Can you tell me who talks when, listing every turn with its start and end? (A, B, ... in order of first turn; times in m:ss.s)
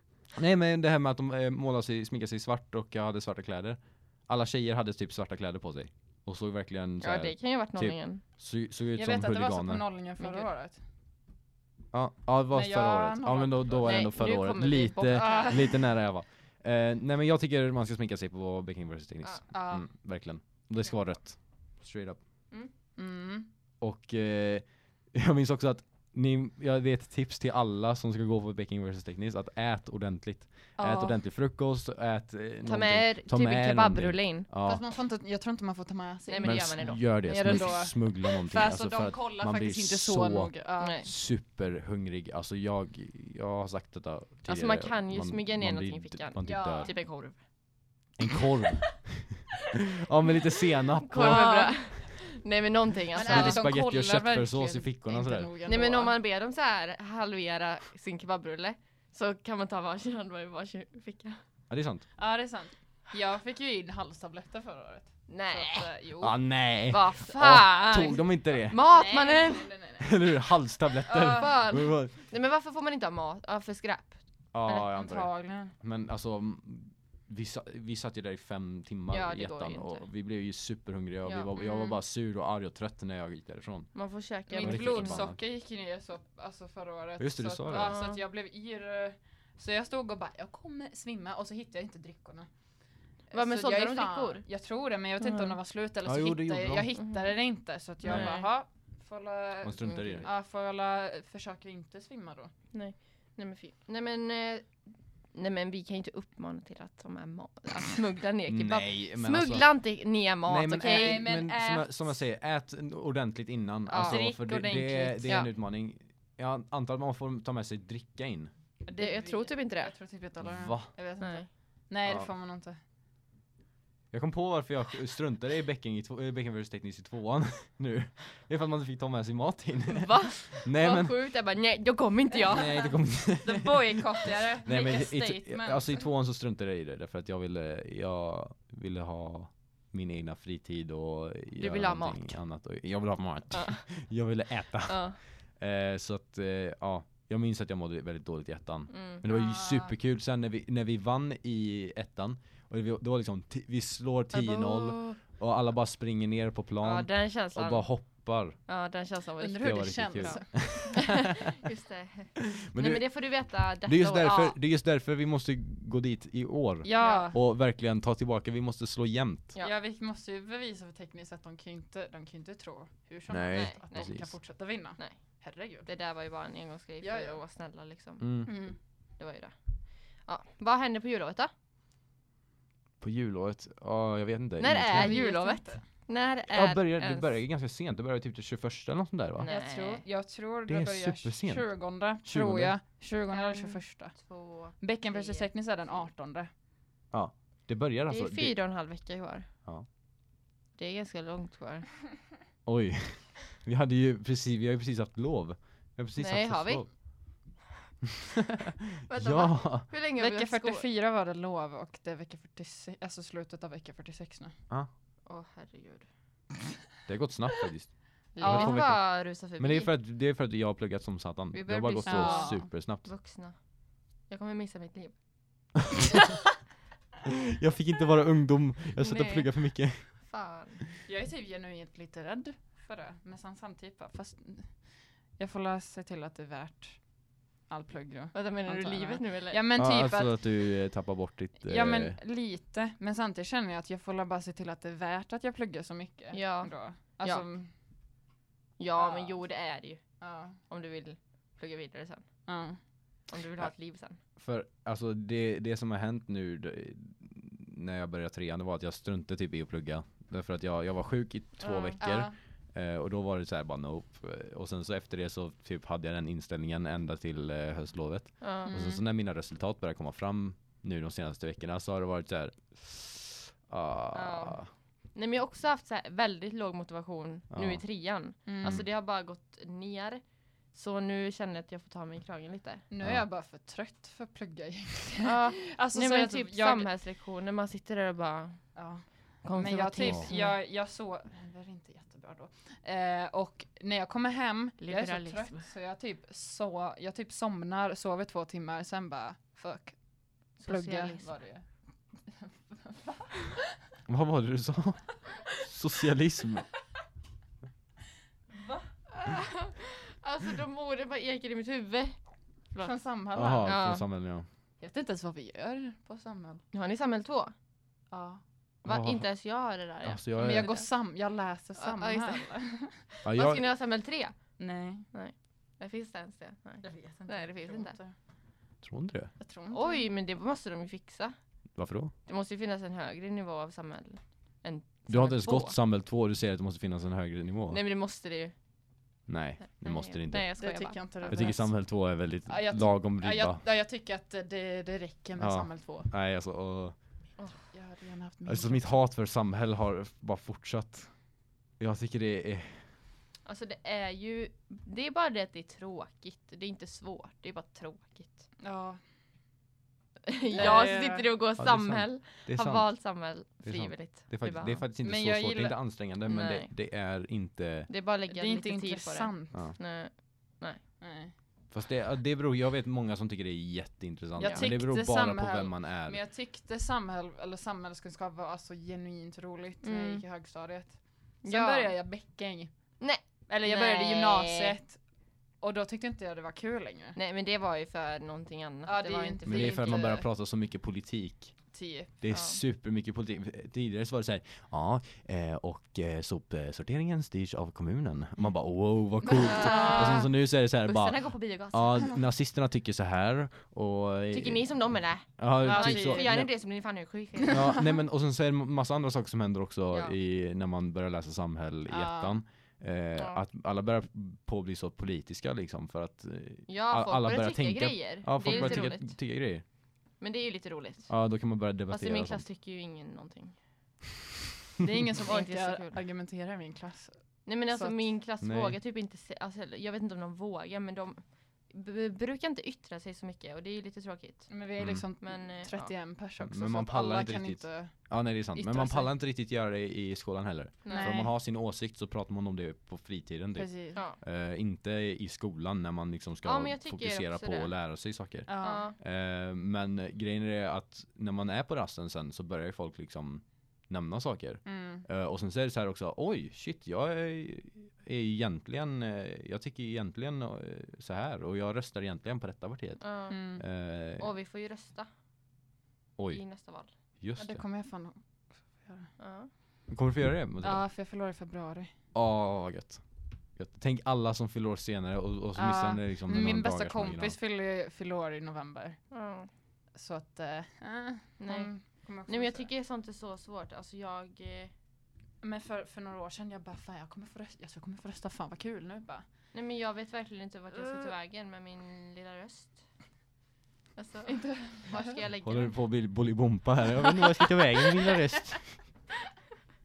0:00.3-0:09.8 A
0:07.0-0:08.2 B
0:08.9-0:10.8 C
0:10.2-0:10.5 B
0:11.9-0:22.2 A
0:12.5-0:14.0 C
0:13.8-0:15.7 B
0:15.1-0:15.8 C
0:19.5-0:19.9 C
0:23.0-0:23.5 C
0:23.8-0:34.8 A
0:30.8-0:31.2 C
0:32.6-0:34.5 B
0:34.6-0:41.0 C
0:36.3-0:37.7 B
0:36.4-0:46.9 A
0:40.8-0:41.1 B
0:44.4-0:47.5 B
0:46.4-0:47.0 C
0:48.2-0:52.0 A
0:51.0-0:53.7 B
0:51.1-0:52.0 C
0:53.1-0:56.1 C
0:53.2-0:55.5 A
0:55.6-1:01.4 B
1:01.7-1:02.1 A
1:02.2-1:06.4 C
1:05.3-1:05.9 B
1:06.2-1:08.8 A
1:06.9-1:09.7 B
1:08.8-1:10.2 C
1:10.0-1:12.1 A
1:11.1-1:11.6 C
1:11.2-1:14.8 B
1:14.5-1:23.9 A
1:14.7-1:15.7 C
1:19.1-1:20.0 B
1:21.2-1:21.9 B
1:23.9-1:25.3 B
1:24.5-1:32.5 C
1:24.6-1:25.4 A
1:27.2-1:28.0 A
1:27.7-1:28.2 B
1:33.3-1:42.5 C
1:33.3-1:34.4 B
1:35.2-1:35.6 B
1:36.0-1:36.9 A
1:37.0-1:37.3 B
1:38.0-1:38.3 A
1:38.0-1:38.5 B
1:39.6-1:40.3 A
1:40.0-1:40.2 B
1:42.7-1:51.2 B
1:48.5-1:49.7 A
1:50.5-1:58.5 A
1:50.8-1:52.2 C
1:53.9-1:54.2 B
1:53.9-1:55.4 C
1:58.8-2:02.8 C
1:58.9-1:59.9 B
2:00.4-2:00.9 A
2:01.2-2:01.5 B
2:04.1-2:11.2 A
2:09.9-2:12.9 B
2:12.5-2:38.6 A
2:12.8-2:16.0 C
2:21.6-2:22.4 B
2:23.5-2:23.8 B
2:24.9-2:25.2 B
2:28.9-2:29.2 B
2:29.3-2:29.9 C
2:34.3-2:35.2 B
2:36.8-2:44.5 B
2:39.4-2:41.2 C
2:39.6-2:41.3 A
2:42.5-2:49.5 A
2:46.8-2:47.4 C
2:47.0-2:47.3 B
2:49.6-2:55.9 C
2:53.3-2:54.3 A
2:53.5-2:54.1 B
2:55.0-3:01.5 B
2:57.0-2:57.4 C
2:58.2-2:58.5 A
2:58.4-2:58.8 C
3:03.0-3:05.2 A
3:04.6-3:07.3 B
3:04.9-3:05.8 C
3:06.5-3:09.5 A
3:09.4-3:10.0 B
3:09.5-3:14.2 C
3:10.7-3:12.8 A
3:13.3-3:16.0 B
3:14.7-3:16.5 C
3:17.1-3:18.6 A
3:18.1-3:19.5 B
3:20.8-3:21.9 B
3:22.6-3:26.9 A
3:26.2-3:26.8 B
3:28.3-3:29.9 A
3:29.1-3:30.8 B
3:30.2-3:34.6 C
3:35.2-3:36.1 B
3:37.1-3:43.1 A
3:38.3-3:39.9 B
3:38.4-3:38.8 C
3:41.5-3:43.6 B
3:42.0-3:42.7 C
3:44.3-3:45.2 B
3:45.9-3:46.2 A
3:47.2-3:50.1 A
3:49.0-3:50.8 B
3:51.0-3:54.7 C
3:55.4-3:57.0 C
3:57.7-4:00.6 C
3:58.3-3:59.6 B
3:59.8-4:02.2 A
4:01.6-4:07.7 C
4:06.3-4:07.4 B
4:08.8-4:10.0 B
4:09.0-4:09.4 C
4:10.2-4:10.6 C
4:10.6-4:12.2 B
4:12.5-4:12.8 C
4:13.3-4:14.2 B
4:14.4-4:34.7 A
4:21.6-4:22.0 B
4:22.0-4:22.3 C
4:28.4-4:28.8 B
4:28.6-4:29.0 C
4:34.1-4:34.6 B
4:35.1-4:40.2 B
4:37.5-4:37.8 A
4:38.5-4:38.8 C
4:40.7-4:42.8 B
4:42.9-4:46.9 C
4:45.2-4:48.6 B
4:48.7-5:00.0 C
4:49.4-4:50.6 B
4:54.8-4:55.6 B
5:00.6-5:01.6 C
5:00.6-5:01.3 B
5:02.3-5:03.6 C
5:04.1-5:06.7 A
5:09.2-5:12.2 B
5:12.8-5:13.7 C
5:13.3-5:14.4 A
5:13.6-5:14.0 B
5:14.8-5:16.6 C
5:16.7-5:17.5 B
5:18.1-5:18.4 C
5:18.8-5:20.8 B
5:18.8-5:19.2 A
5:20.0-5:20.7 A
5:20.4-5:23.0 C
5:21.8-5:22.5 B
5:23.1-5:24.4 B
5:23.2-5:23.6 A
5:24.6-5:25.1 C
5:25.1-5:28.0 B
5:26.8-5:28.1 C
5:28.8-5:29.3 A
5:29.4-5:30.0 C
5:29.7-5:31.4 B
5:31.7-5:32.1 A
5:32.2-5:35.8 B
5:35.1-5:37.8 A
5:37.7-5:38.5 B
5:39.3-5:40.5 A
5:39.7-5:41.6 B
5:40.6-5:46.1 C
5:41.3-5:43.6 A
5:45.4-5:47.0 A
5:47.7-5:49.0 C
5:48.4-5:51.1 A
5:51.8-5:52.9 A
5:53.4-5:58.5 B
5:58.6-5:59.0 C
6:00.2-6:04.8 B
6:00.5-6:01.3 C
6:01.6-6:02.9 A
6:03.6-6:07.9 A
6:05.0-6:05.8 C
6:06.2-6:06.7 B
6:07.9-6:10.8 B
6:08.3-6:09.6 C
6:11.0-6:11.3 C
6:11.7-6:16.2 A
6:14.4-6:22.7 C
6:14.4-6:14.7 B
6:19.8-6:20.2 B
6:21.4-6:21.9 B
6:23.0-6:24.8 B
6:23.5-6:25.0 C
6:25.6-6:27.2 C
6:27.1-6:30.1 B
6:28.8-6:30.2 C
6:29.4-6:31.6 A
6:31.7-6:32.1 C
6:32.2-6:44.7 A
6:32.3-6:32.6 B
6:39.3-6:40.2 C
6:39.4-6:42.1 B
6:44.3-6:47.8 B
6:45.4-6:46.5 A
6:45.6-6:46.3 C
6:47.5-6:59.6 A
6:51.9-6:52.4 C
6:53.2-6:53.4 B
6:56.7-6:59.2 B
6:58.4-6:58.8 C
7:00.2-7:01.1 B
7:01.1-7:02.4 A
7:01.9-7:03.6 B
7:04.8-7:08.0 C
7:05.2-7:06.0 B
7:07.4-7:15.9 B
7:08.4-7:08.8 A
7:14.5-7:19.1 C
7:14.8-7:15.0 A
7:16.4-7:44.3 A
7:20.8-7:21.2 B
7:20.9-7:21.3 C
7:23.5-7:24.0 C
7:23.9-7:24.2 B
7:26.4-7:27.7 B
7:28.5-7:28.9 C
7:28.6-7:29.0 B
7:34.6-7:35.0 C
7:43.0-7:43.4 B
7:43.3-7:43.6 C
7:44.2-7:45.1 B
7:46.2-7:46.4 A
7:46.3-7:46.9 B
7:47.2-7:47.6 A
7:47.4-7:49.1 C
7:49.2-7:49.5 B
7:49.9-7:50.8 A
7:50.6-7:51.9 C
7:52.1-7:53.0 A
7:53.5-7:57.4 A
7:55.5-7:59.0 C
7:59.1-7:59.5 B
8:00.0-8:02.7 C
8:01.4-8:04.7 B
8:05.4-8:09.2 C
8:09.5-8:12.8 B
8:10.8-8:11.1 C
8:14.0-8:15.8 B
8:14.3-8:15.2 C
8:15.4-8:18.8 A